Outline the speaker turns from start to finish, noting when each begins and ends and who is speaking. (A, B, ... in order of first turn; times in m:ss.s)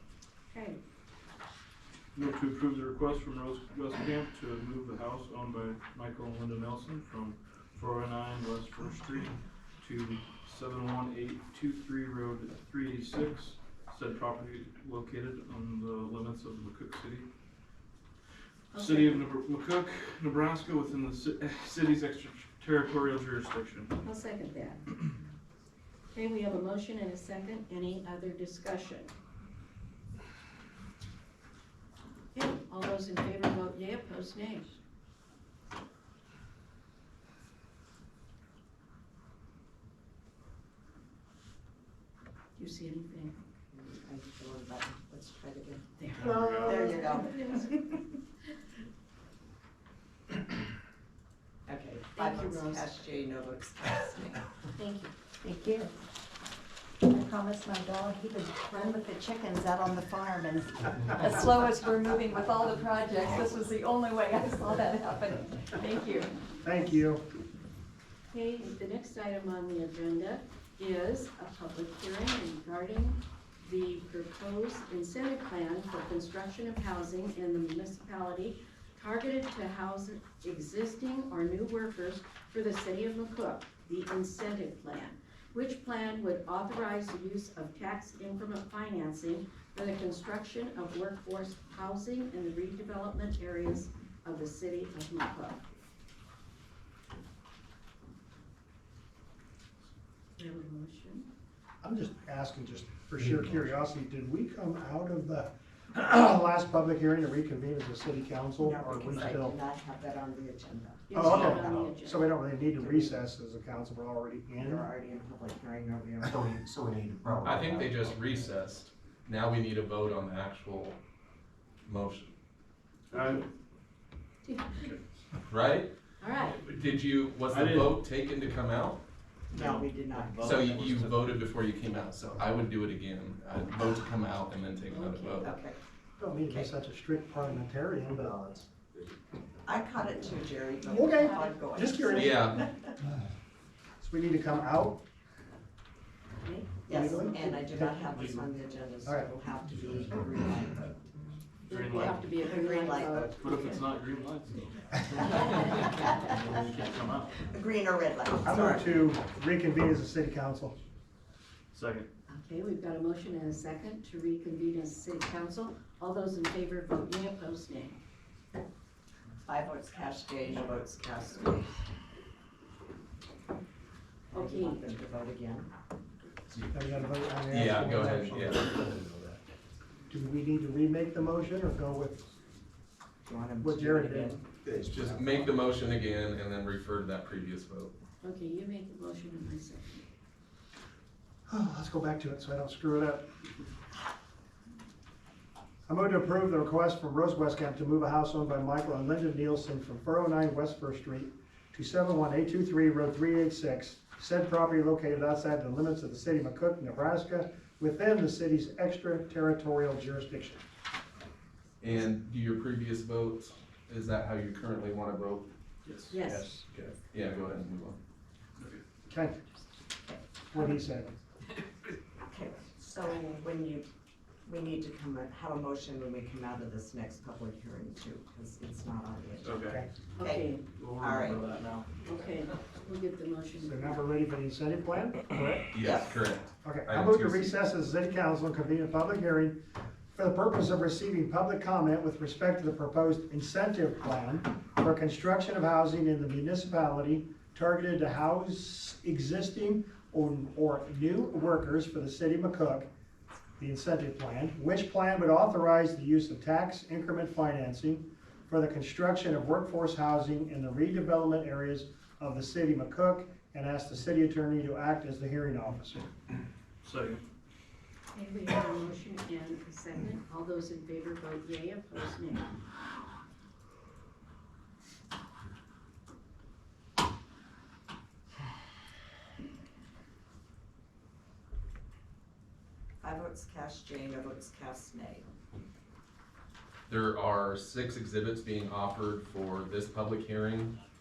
0:00.5-0:00.8 A
0:02.2-0:17.3 B
0:18.7-0:19.2 A
0:18.8-0:23.9 B
0:24.0-0:24.9 A
0:26.1-0:29.1 A
0:32.3-0:34.8 A
0:42.6-0:43.4 A
0:43.7-0:48.0 C
0:46.0-0:47.8 A
0:46.2-0:46.8 B
0:51.7-0:54.4 C
0:52.2-0:52.9 A
0:54.8-0:55.1 A
0:55.4-0:55.9 D
0:57.0-1:06.3 D
1:06.6-1:07.2 E
1:08.3-1:35.6 A
1:40.4-1:41.3 A
1:41.8-1:49.6 E
1:48.6-1:51.9 C
1:51.1-1:52.3 A
1:51.1-1:54.9 E
1:52.8-1:53.2 C
1:54.6-1:56.4 C
1:56.2-1:58.5 F
1:57.4-2:01.0 G
2:01.8-2:02.3 G
2:03.1-2:03.5 B
2:04.4-2:04.9 A
2:05.5-2:05.9 G
2:06.2-2:06.6 A
2:06.6-2:09.0 G
2:07.5-2:08.0 B
2:09.5-2:11.0 C
2:09.5-2:11.1 B
2:10.4-2:15.5 G
2:14.9-2:15.5 A
2:15.4-2:15.8 C
2:16.2-2:18.4 E
2:18.3-2:18.6 F
2:19.6-2:22.9 C
2:20.8-2:22.5 E
2:21.2-2:21.5 A
2:22.1-2:22.6 G
2:24.0-2:25.0 E
2:26.4-2:27.6 A
2:26.9-2:31.0 C
2:26.9-2:28.0 E
2:28.1-2:28.5 B
2:29.0-2:29.4 E
2:31.6-2:33.8 A
2:31.7-2:32.2 B
2:32.0-2:33.8 C
2:33.4-2:37.5 B
2:35.2-2:36.4 C
2:37.4-2:39.1 C
2:38.4-2:40.8 E
2:41.7-2:42.1 B
2:42.3-2:48.0 A
2:49.4-2:51.7 C
2:54.3-2:54.9 A
2:54.3-2:55.7 C
2:56.7-2:58.8 E
2:57.5-2:58.8 G
2:58.3-2:59.4 F
3:00.1-3:02.3 E
3:03.2-3:05.2 C
3:03.6-3:04.4 E
3:04.6-3:05.6 F
3:04.8-3:07.9 G
3:08.2-3:10.0 A
3:11.5-3:13.3 E
3:15.9-3:30.6 E
3:31.8-3:35.5 G
3:35.8-3:36.2 B
3:36.1-3:36.5 A
3:36.5-3:38.0 G
3:38.6-3:38.8 B
3:39.1-3:39.4 E
3:40.5-3:41.1 E
3:42.3-3:43.9 C
3:44.4-3:51.8 C
3:49.4-3:49.8 B
3:50.2-3:50.6 A
3:50.7-3:51.9 B
3:52.0-3:54.0 A
3:53.6-3:55.7 E
3:55.7-3:57.5 G
3:55.8-3:56.2 C
3:56.6-3:59.6 E
4:00.1-4:12.9 E
4:13.6-4:26.0 E
4:26.8-4:27.2 B
4:28.1-4:32.5 A
4:43.0-4:45.3 C
4:46.9-4:50.8 G